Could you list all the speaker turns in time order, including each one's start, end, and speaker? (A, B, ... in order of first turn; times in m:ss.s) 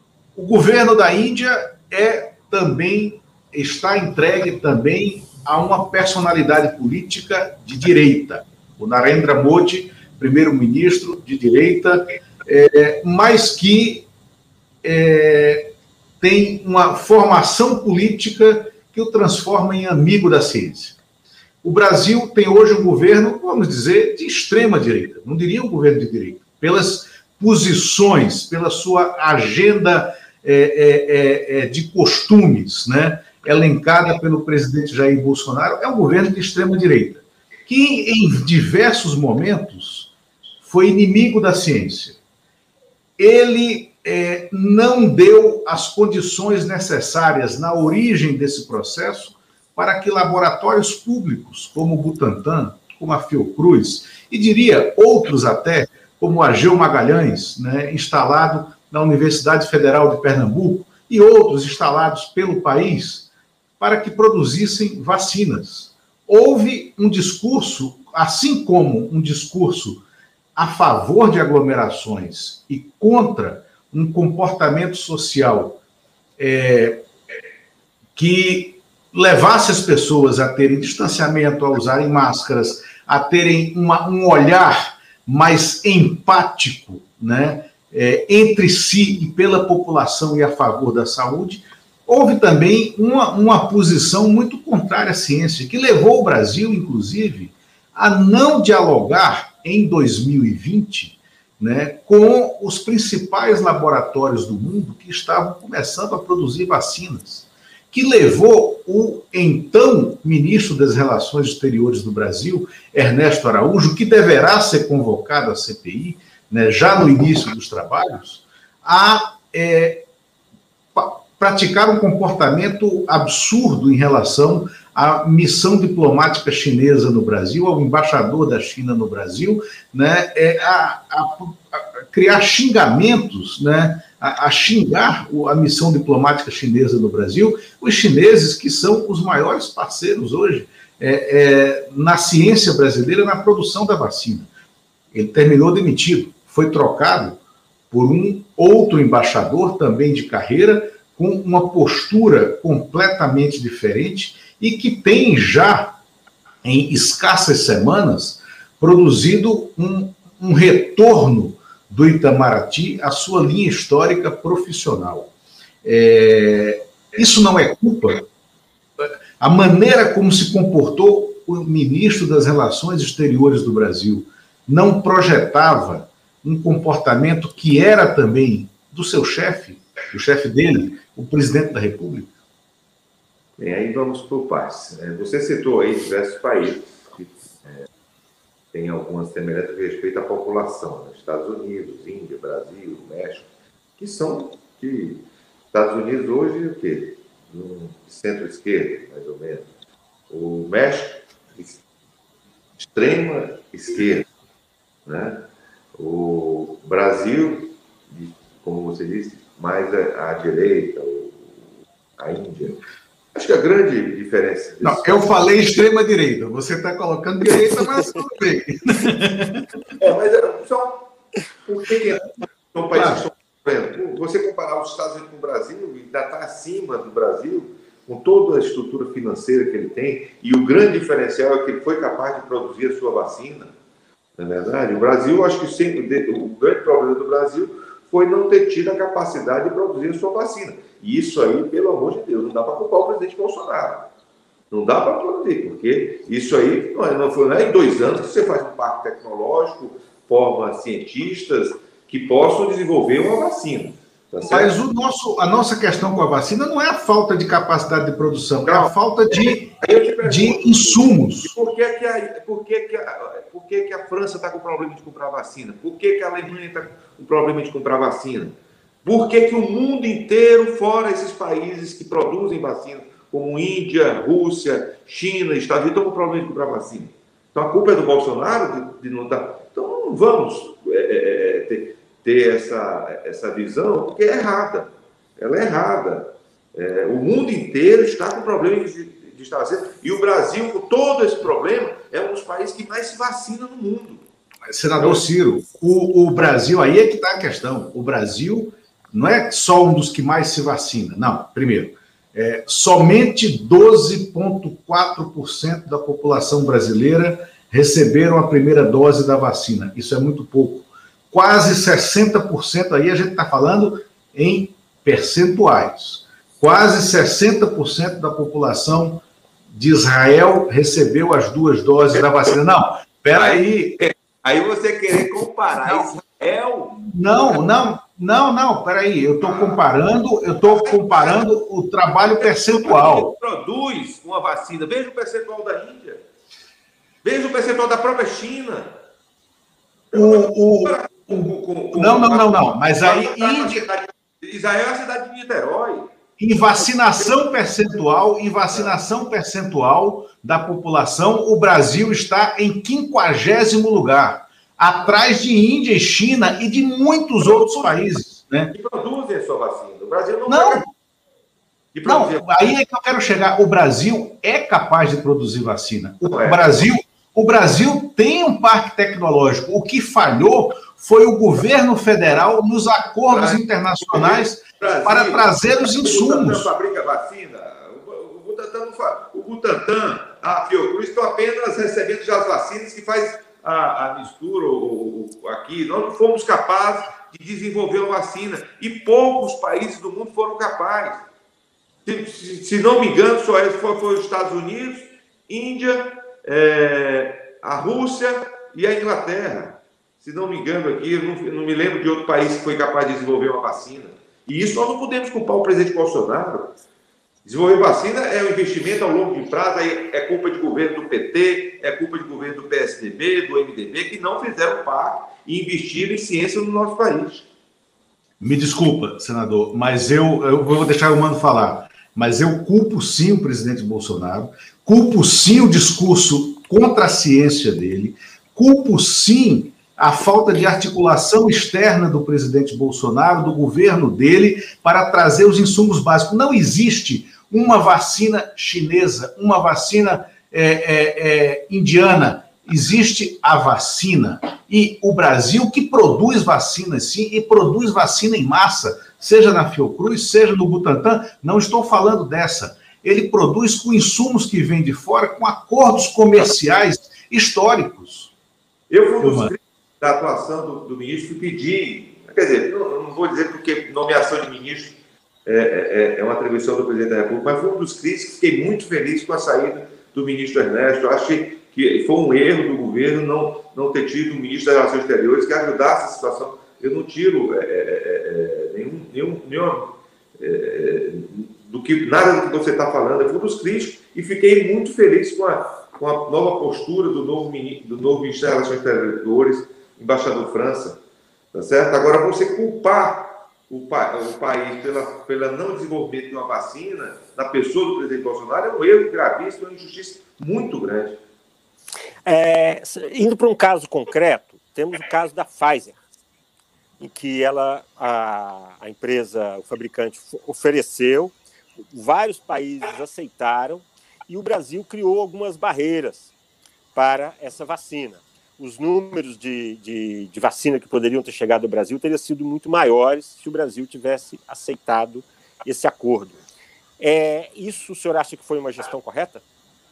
0:00.3-0:14.1 A
0:14.8-0:21.0 A
0:21.6-0:40.1 A
0:40.6-0:42.2 A
0:43.2-1:03.3 A
1:03.8-1:10.0 A
1:10.6-1:15.8 A
1:16.4-1:17.0 A
1:18.2-2:00.0 A
2:00.9-2:24.5 A
2:25.1-2:27.4 A
2:27.9-2:35.9 A
2:36.6-2:45.3 A
2:45.8-2:48.2 A
2:49.0-3:02.3 A
3:03.6-3:07.9 B
3:08.7-3:13.5 B
3:14.0-3:19.6 B
3:20.3-3:21.8 B
3:22.8-3:24.2 B
3:25.0-3:32.8 B
3:33.3-3:35.5 B
3:34.8-3:39.6 A
3:40.0-3:53.7 B
3:42.9-3:43.2 A
3:54.4-4:04.1 B
4:04.7-4:14.7 B
4:14.5-4:19.7 A
4:18.6-4:54.2 B
4:20.2-4:21.5 A
4:54.6-5:24.0 A
5:23.3-5:27.0 B
5:27.0-5:33.3 A
5:29.4-5:29.8 B
5:30.6-5:31.4 B
5:32.3-5:36.2 B
5:37.2-5:38.9 B
5:40.1-5:46.1 B
5:40.1-5:43.9 A
5:46.4-5:58.7 A
5:48.7-5:49.0 B
5:57.4-5:58.0 B
5:58.7-6:00.9 B
6:00.5-6:00.8 A
6:01.9-6:02.5 B
6:02.0-6:16.7 A
6:06.2-6:06.6 B
6:13.3-6:31.2 B
6:32.0-6:46.7 B
6:47.4-6:57.5 B
6:58.4-7:38.3 A
7:38.9-8:11.0 B
7:39.2-7:39.5 A
8:11.5-8:21.2 B
8:22.2-8:26.0 C
8:27.0-8:31.3 C
8:31.9-8:36.3 C
8:36.9-8:46.4 C
8:47.0-8:49.4 C